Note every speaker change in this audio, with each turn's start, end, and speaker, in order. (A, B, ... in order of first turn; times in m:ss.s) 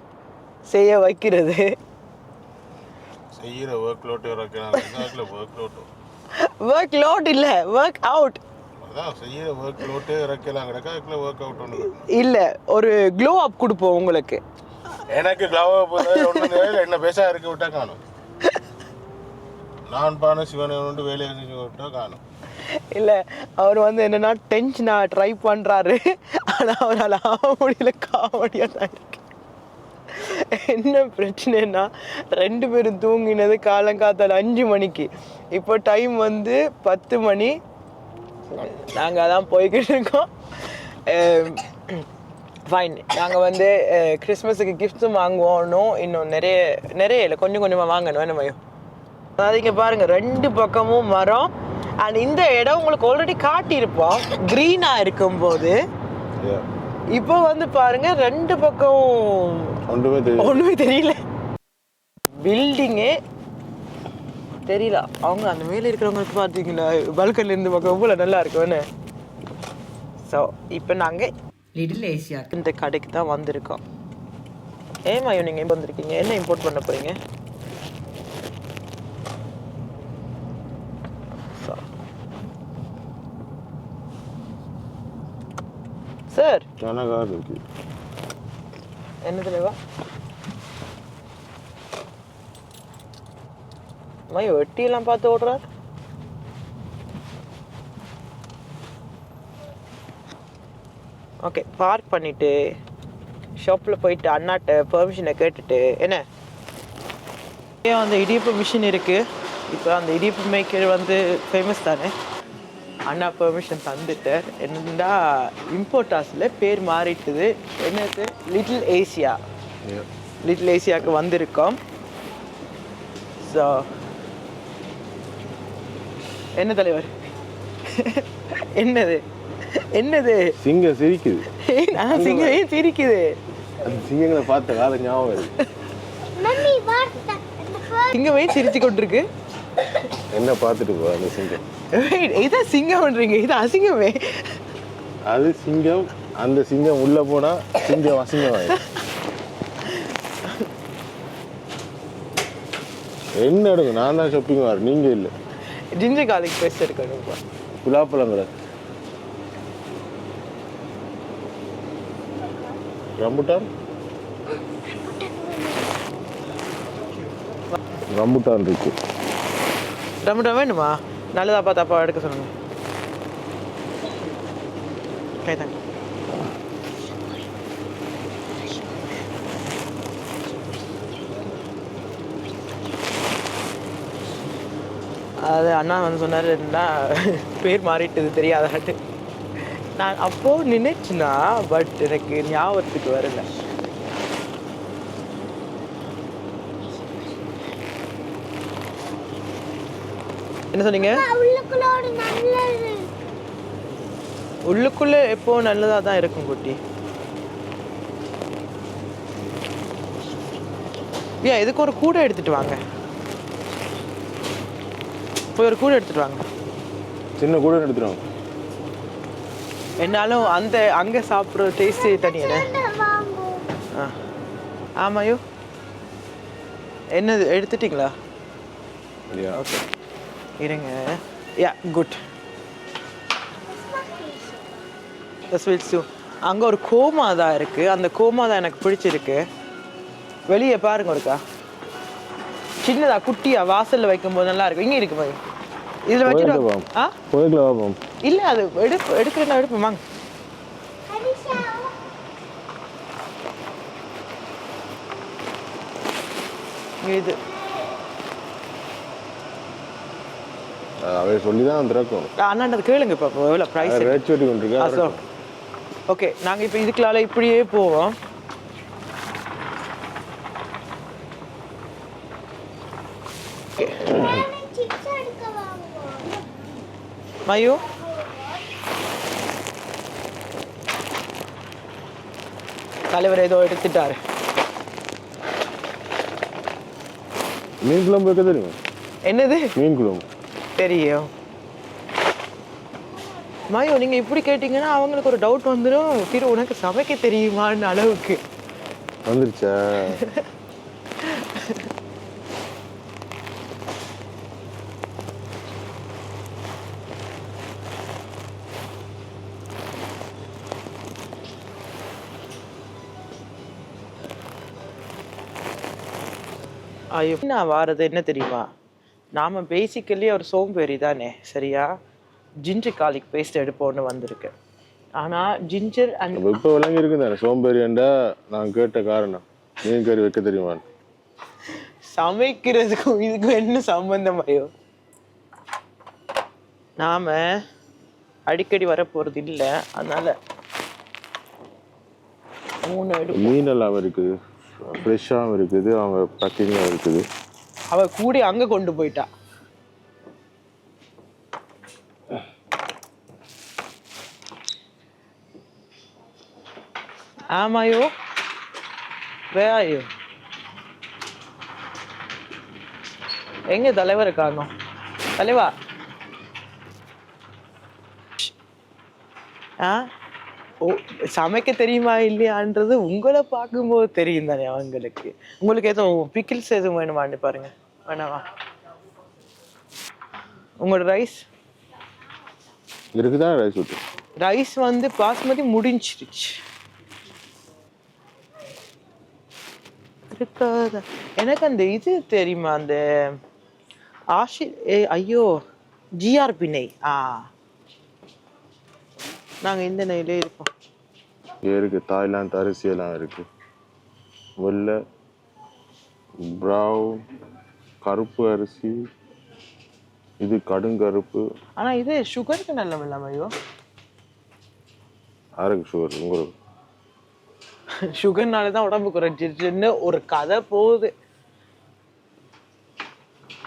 0:00.7-0:01.7 A
0:03.3-0:05.9 B
0:04.8-0:05.0 A
0:06.3-0:08.4 A
0:08.8-0:12.1 B
0:11.8-0:14.4 A
0:15.1-0:18.0 B
0:16.0-0:16.7 A
0:19.9-0:22.2 B
0:22.6-0:29.2 A
0:30.1-0:37.6 A
0:38.5-0:42.0 A
0:42.7-0:48.6 A
0:49.4-0:55.8 A
0:57.1-0:59.8 A
0:59.9-1:00.6 B
1:00.4-1:01.2 A
1:02.4-1:03.2 A
1:04.6-1:08.8 A
1:10.3-1:13.8 A
1:15.1-1:17.2 A
1:21.5-1:21.8 A
1:26.3-1:26.7 A
1:26.8-1:27.6 B
1:29.2-1:29.8 A
1:34.3-1:35.6 A
1:41.4-1:42.6 A
1:43.6-1:46.2 A
1:47.8-1:52.1 A
1:53.1-1:59.4 A
2:00.4-2:01.8 A
2:03.4-2:03.8 A
2:06.6-2:07.1 A
2:07.9-2:10.5 A
2:10.6-2:12.6 B
2:11.5-2:13.4 A
2:13.8-2:15.5 B
2:16.4-2:18.1 C
2:18.1-2:19.2 A
2:20.3-2:21.6 B
2:21.9-2:24.6 A
2:25.2-2:28.8 B
2:28.4-2:28.8 A
2:29.8-2:30.7 A
2:33.4-2:35.3 B
2:35.9-2:37.4 A
2:37.8-2:38.5 B
2:43.2-2:43.7 B
2:45.1-2:45.8 C
2:48.1-2:49.0 B
2:50.2-2:52.5 A
2:55.4-2:55.8 A
3:05.4-3:09.0 A
3:09.9-3:13.4 A
3:20.7-3:21.2 A
3:21.0-3:23.1 C
3:24.7-3:26.8 A
3:31.4-3:32.8 A
3:35.5-3:36.4 A
3:37.4-3:38.2 B
3:40.0-3:42.7 A
3:42.1-3:43.7 C
3:45.0-3:45.4 A
3:47.1-3:48.1 A
3:49.3-3:49.6 B
3:49.5-3:49.8 A
3:50.6-3:52.2 A
3:53.6-3:54.7 C
3:55.5-3:59.4 A
4:00.5-4:01.4 A
4:02.8-4:05.4 A
4:06.1-4:07.1 A
4:06.2-4:08.0 B
4:08.2-4:10.0 A
4:11.0-4:12.0 C
4:17.0-4:17.4 A
4:21.0-4:22.3 B
4:22.4-4:24.2 A
4:23.8-4:25.2 B
4:24.8-4:25.2 A
4:26.1-4:28.1 A
4:33.8-4:34.2 A
4:34.1-4:36.4 C
4:37.4-4:37.8 A
4:37.9-4:38.6 C
4:43.1-4:44.2 A
4:47.8-4:48.8 B
4:49.3-4:49.7 A
4:49.8-4:50.2 B
4:50.8-4:51.3 A
4:53.7-4:58.4 A
4:59.3-5:00.2 B
5:00.1-5:00.4 A
5:01.2-5:01.9 A
5:17.1-5:18.7 A
5:19.4-5:21.9 A
5:22.6-5:24.5 A
5:25.2-5:26.4 A
5:26.3-5:30.8 B
5:32.1-5:34.7 A
5:37.0-5:37.6 A
5:38.5-5:40.3 A
5:42.8-5:43.5 A
5:43.3-5:44.3 B
5:44.8-5:47.2 B
5:47.9-5:49.3 A
5:57.5-5:58.1 A
5:59.5-6:00.0 A
6:03.7-6:04.7 A
6:05.4-6:05.7 A
6:10.8-6:18.4 A
6:20.8-6:21.4 A
6:23.2-6:24.0 B
6:24.4-6:26.6 A
6:30.3-6:33.0 A
6:34.3-6:35.5 A
6:36.2-6:37.5 A
6:39.6-6:40.7 A
6:41.6-6:43.4 B
6:44.6-6:45.0 B
6:46.4-6:47.2 B
6:48.0-6:49.0 B
6:50.4-6:51.4 B
6:51.8-6:53.5 A
6:55.6-6:56.5 B
6:58.0-7:01.1 A